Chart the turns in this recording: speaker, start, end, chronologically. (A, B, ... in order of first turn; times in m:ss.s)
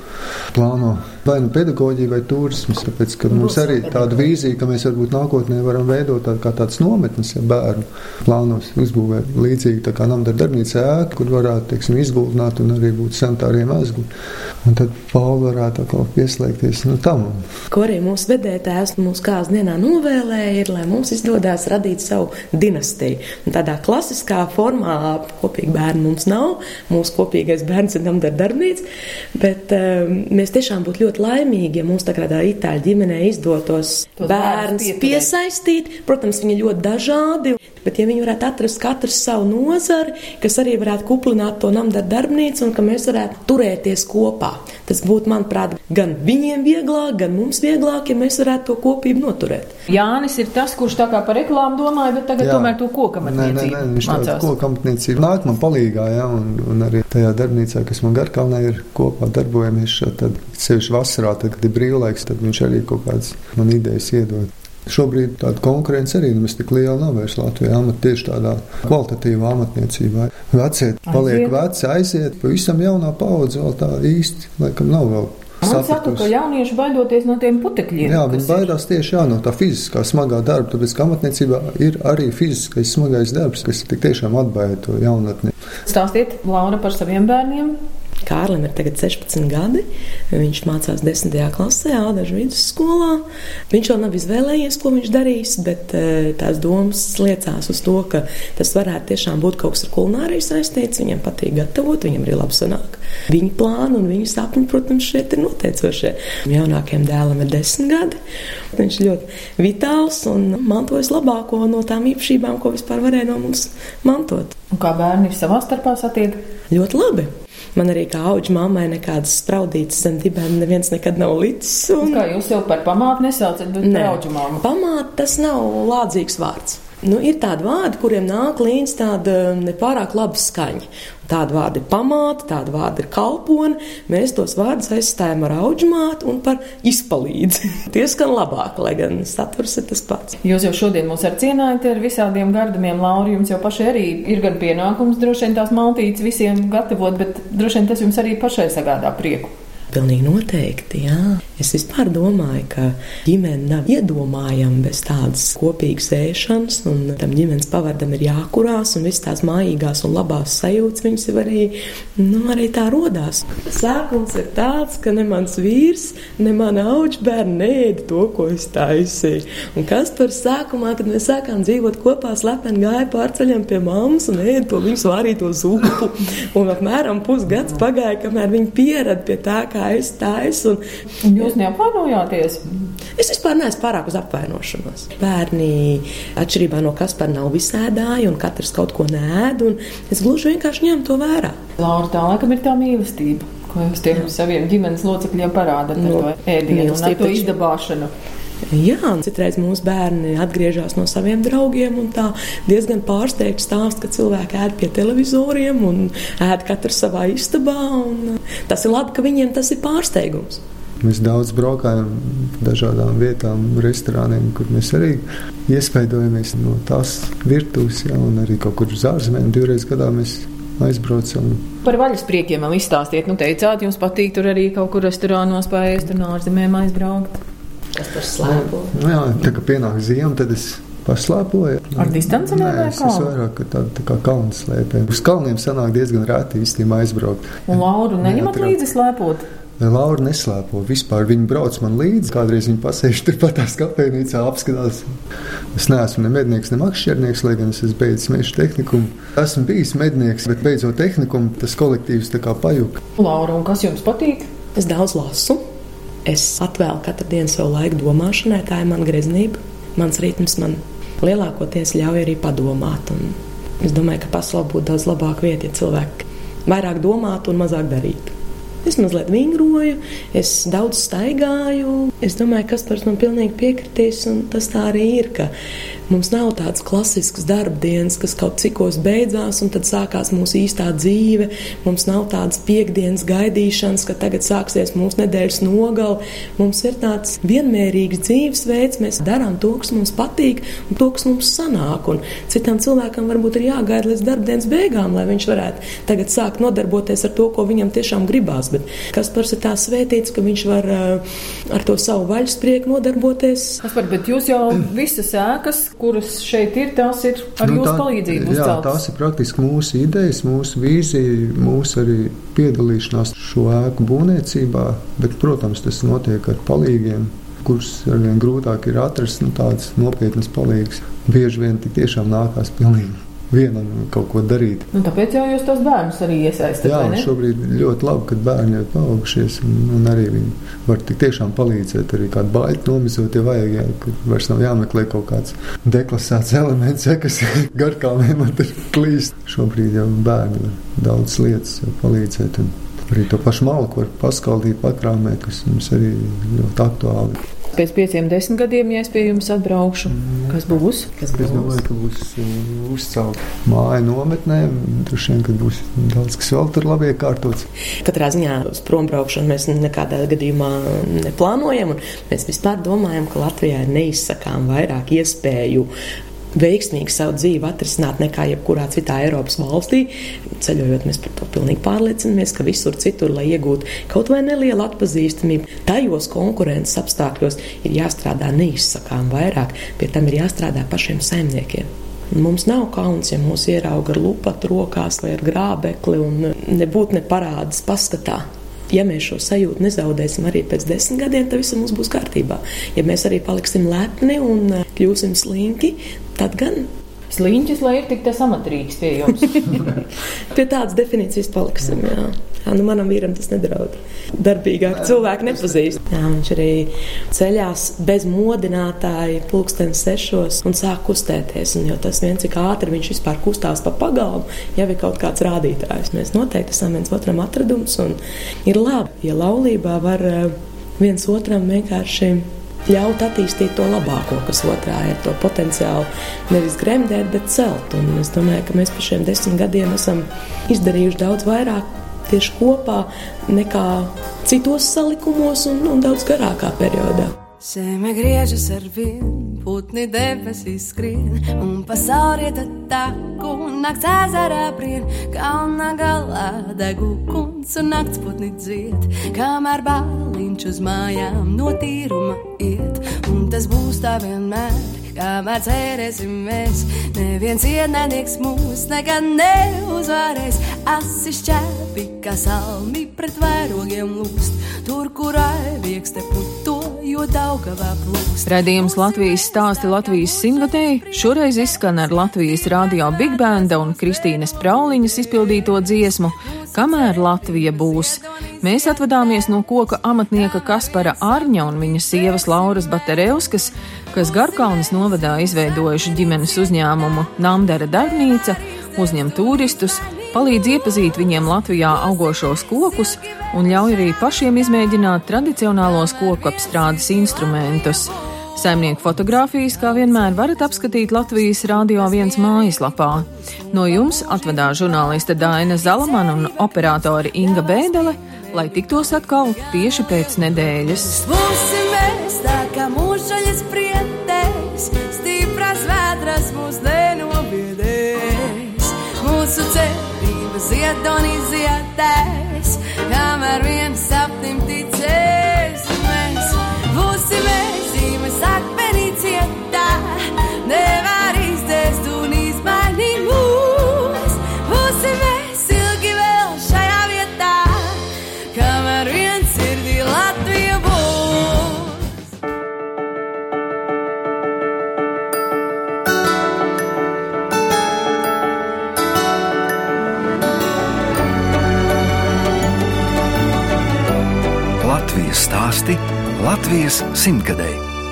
0:00.5-0:14.1 A
0:03.3-0:04.3 B
0:14.6-0:17.4 A
0:17.7-0:28.8 B
0:29.4-0:49.8 B
0:34.2-0:35.3 C
0:49.9-0:54.5 C
0:52.4-1:16.3 A
1:11.1-1:11.5 C
1:15.6-1:18.7 C
1:18.0-1:25.5 A
1:25.8-1:27.8 C
1:28.2-1:48.2 B
1:48.7-1:54.5 B
1:54.7-1:56.4 C
1:56.7-2:02.2 B
2:02.0-2:04.6 C
2:03.8-2:20.4 B
2:20.4-2:29.5 C
2:29.9-3:00.8 B
3:01.2-3:02.6 C
3:03.2-3:11.6 B
3:11.8-3:18.1 C
3:16.0-3:17.6 B
3:18.7-3:30.6 B
3:31.0-3:41.7 A
3:41.8-3:47.4 C
3:47.9-3:48.9 B
3:48.4-3:58.8 A
3:52.0-3:53.3 C
3:57.7-3:59.4 C
3:59.8-4:05.1 A
4:05.7-4:13.0 A
4:13.2-4:14.5 C
4:14.8-4:15.6 B
4:16.2-4:35.5 B
4:36.1-5:03.8 B
5:03.8-5:09.0 C
5:07.6-5:24.9 A
5:24.9-5:27.3 C
5:26.8-5:47.4 A
5:47.7-5:51.1 C
5:50.1-5:50.6 A
5:51.2-5:51.8 B
5:51.3-5:57.7 A
5:58.0-6:05.9 B
6:06.5-6:36.9 B
6:37.3-6:39.9 C
6:40.5-7:17.3 B
6:44.9-6:45.8 A
7:17.6-7:48.6 D
7:48.5-8:31.2 C
7:57.4-7:58.5 D
8:23.8-8:24.6 D
8:26.0-9:02.1 D
9:14.8-9:17.8 E